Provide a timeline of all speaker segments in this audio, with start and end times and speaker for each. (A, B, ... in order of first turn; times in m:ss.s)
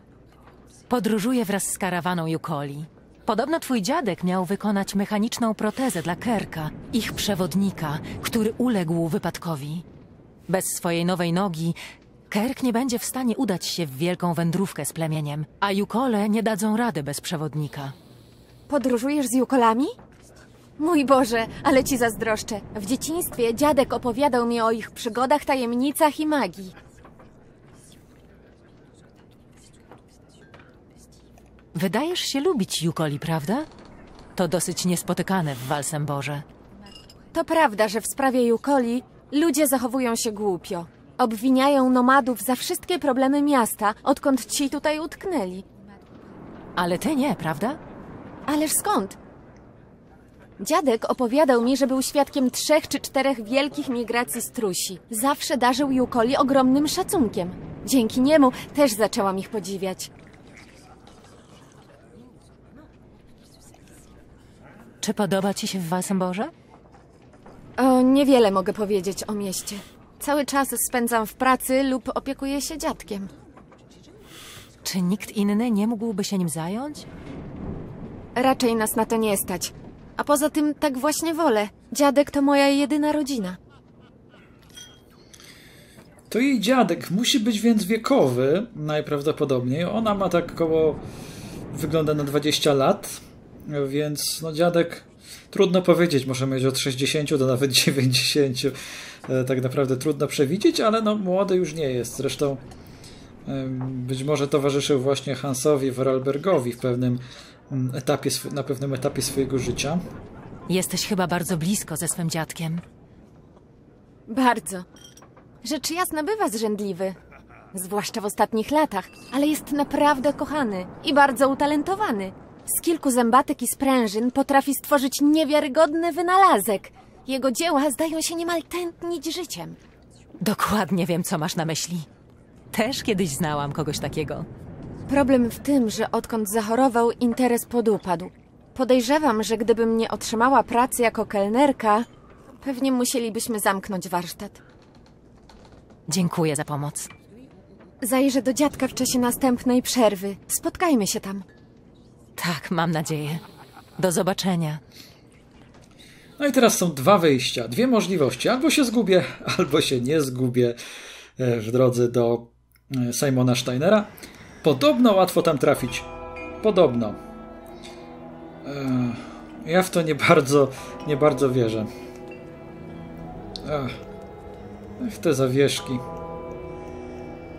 0:00.9-0:09.8 A
0:10.5-0:11.8 A
0:12.3-0:17.9 A
0:18.7-0:19.9 B
0:20.8-0:26.7 B
0:31.7-0:33.7 A
0:34.4-0:36.4 A
0:37.3-0:45.6 B
0:46.8-0:47.8 A
0:48.5-0:49.2 B
0:50.6-1:00.1 B
1:05.0-1:06.5 A
1:07.8-1:13.3 B
1:14.8-1:17.1 A
1:18.4-1:23.6 B
1:26.3-1:31.0 C
1:31.7-1:42.6 C
1:43.4-1:50.0 C
1:50.7-1:52.8 A
1:54.3-1:54.8 B
1:55.6-1:57.2 B
1:57.7-2:09.8 B
2:10.4-2:12.1 A
2:12.7-2:14.5 A
2:15.1-2:22.1 B
2:22.6-2:24.6 B
2:26.1-2:27.1 A
2:28.0-2:31.4 B
2:32.4-2:33.4 A
2:34.0-2:34.8 A
2:36.4-2:40.8 C
2:41.4-2:46.1 C
2:46.6-2:47.2 C
2:48.6-2:51.9 C
2:53.6-2:54.0 C
2:55.0-2:56.0 C